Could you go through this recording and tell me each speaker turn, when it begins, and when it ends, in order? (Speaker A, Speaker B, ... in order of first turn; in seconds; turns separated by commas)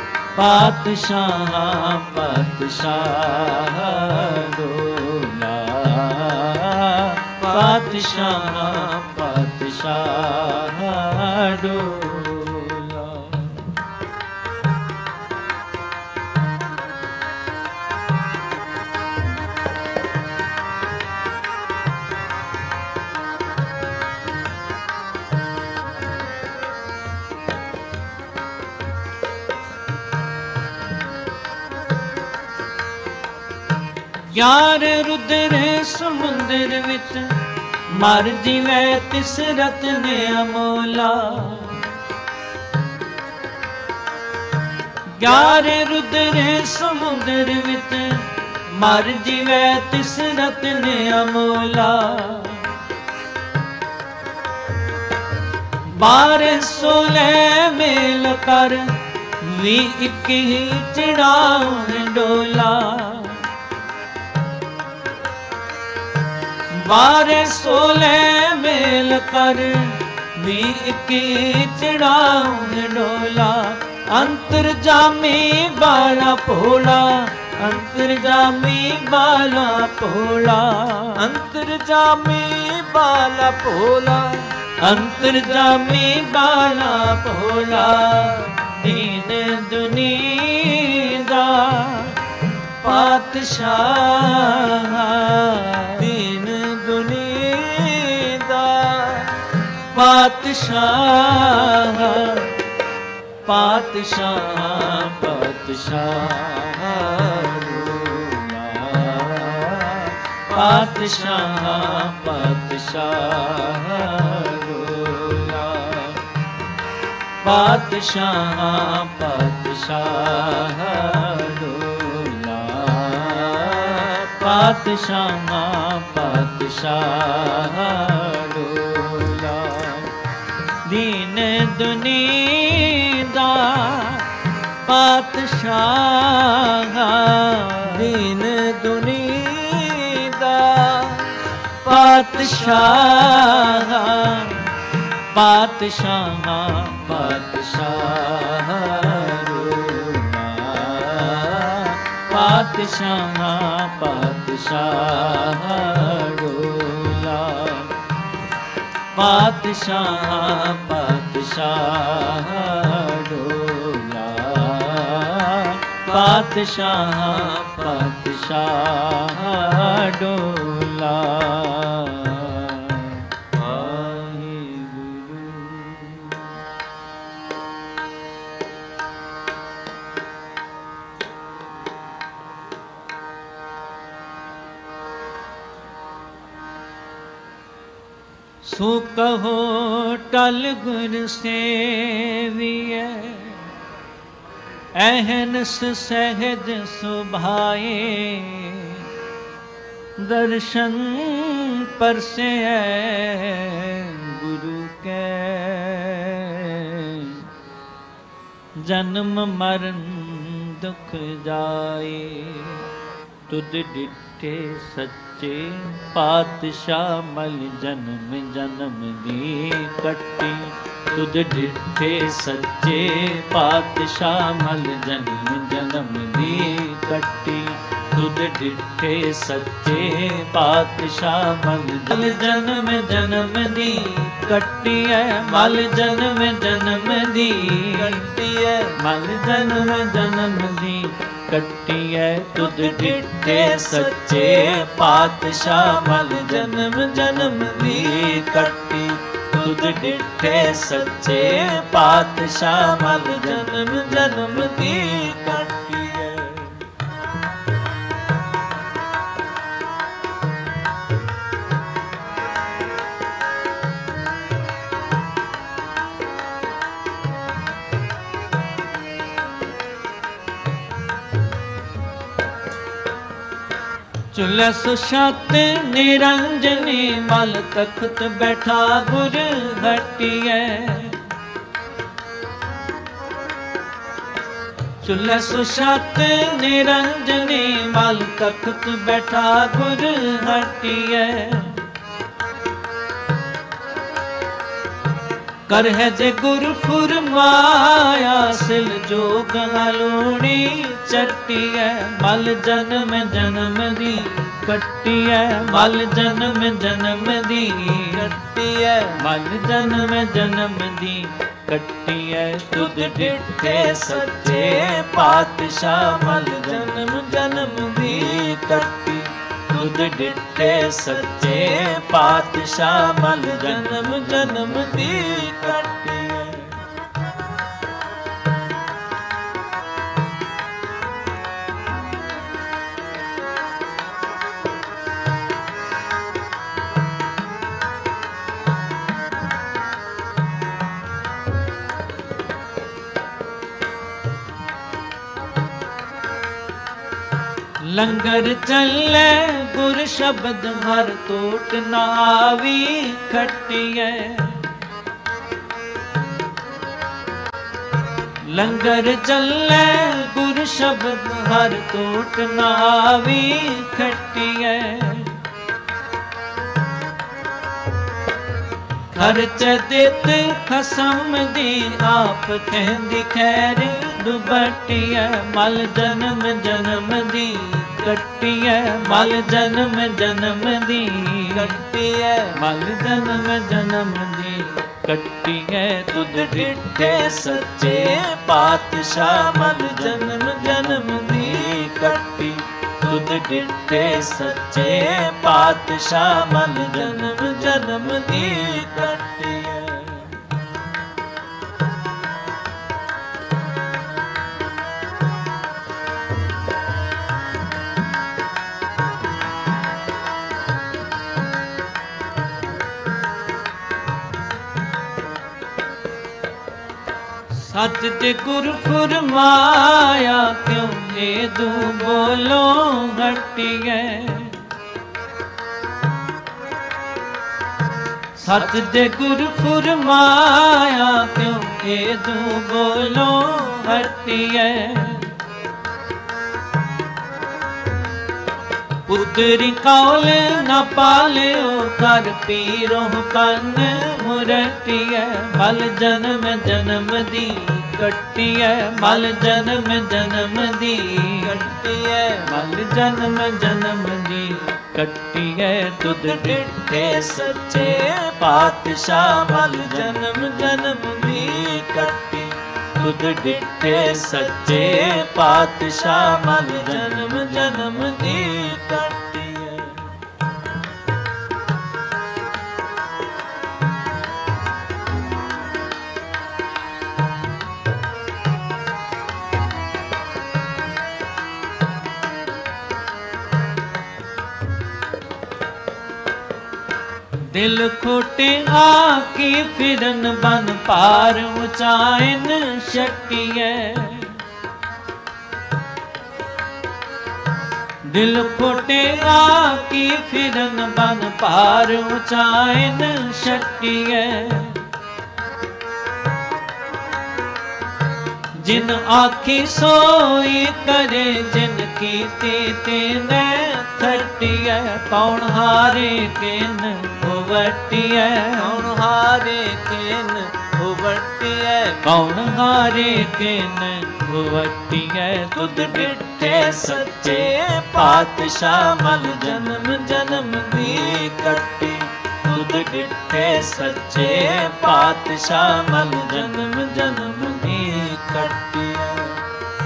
Speaker A: 0.3-13.7, Speaker B: 7.4-8.8, Speaker A: 34.3-37.3, Speaker A: 37.9-41.9, Speaker A: 45.1-48.2, Speaker A: 48.7-52.7, Speaker A: 55.9-63.5, Speaker A: 66.7-81.3, Speaker B: 81.2-84.5, Speaker A: 84.8-92.2, Speaker A: 92.8-96.1, Speaker B: 96.0-99.4, Speaker A: 99.9-102.5, Speaker A: 103.5-116.2, Speaker A: 117.4-130.1, Speaker A: 130.8-134.2, Speaker A: 134.8-138.1, Speaker B: 137.9-141.3, Speaker A: 141.8-144.6, Speaker A: 145.3-157.9, Speaker A: 159.1-176.6, Speaker B: 173.7-174.0, Speaker A: 188.6-193.6, Speaker A: 195.0-199.1, Speaker A: 200.2-207.4, Speaker A: 208.8-212.8, Speaker A: 213.5-238.3, Speaker B: 237.8-238.9, Speaker A: 239.0-254.9, Speaker B: 242.6-244.2, Speaker B: 246.2-248.4, Speaker B: 249.6-251.8, Speaker B: 252.9-256.7, Speaker A: 274.3-281.2, Speaker A: 285.0-291.8, Speaker A: 295.7-308.3, Speaker B: 307.9-309.2, Speaker A: 309.2-326.7, Speaker B: 312.8-315.1, Speaker B: 316.4-318.9, Speaker B: 321.5-322.0, Speaker B: 323.2-326.1, Speaker A: 347.9-354.7, Speaker A: 358.5-365.4, Speaker A: 369.1-381.8, Speaker B: 381.5-382.6, Speaker A: 382.5-400.4, Speaker B: 386.2-388.4, Speaker B: 389.4-391.9, Speaker B: 394.7-395.1, Speaker B: 396.7-399.4, Speaker A: 417.6-424.6, Speaker A: 428.4-435.3, Speaker A: 439.1-451.8, Speaker B: 451.4-452.5, Speaker A: 452.4-470.1, Speaker B: 456.2-458.4, Speaker B: 459.3-462.5, Speaker B: 463.9-465.3, Speaker B: 466.1-469.3, Speaker A: 487.5-494.4, Speaker A: 498.1-504.8, Speaker A: 508.6-518.9, Speaker B: 518.6-522.0, Speaker A: 522.0-538.5, Speaker B: 525.6-531.9, Speaker B: 534.1-534.7, Speaker B: 536.3-539.4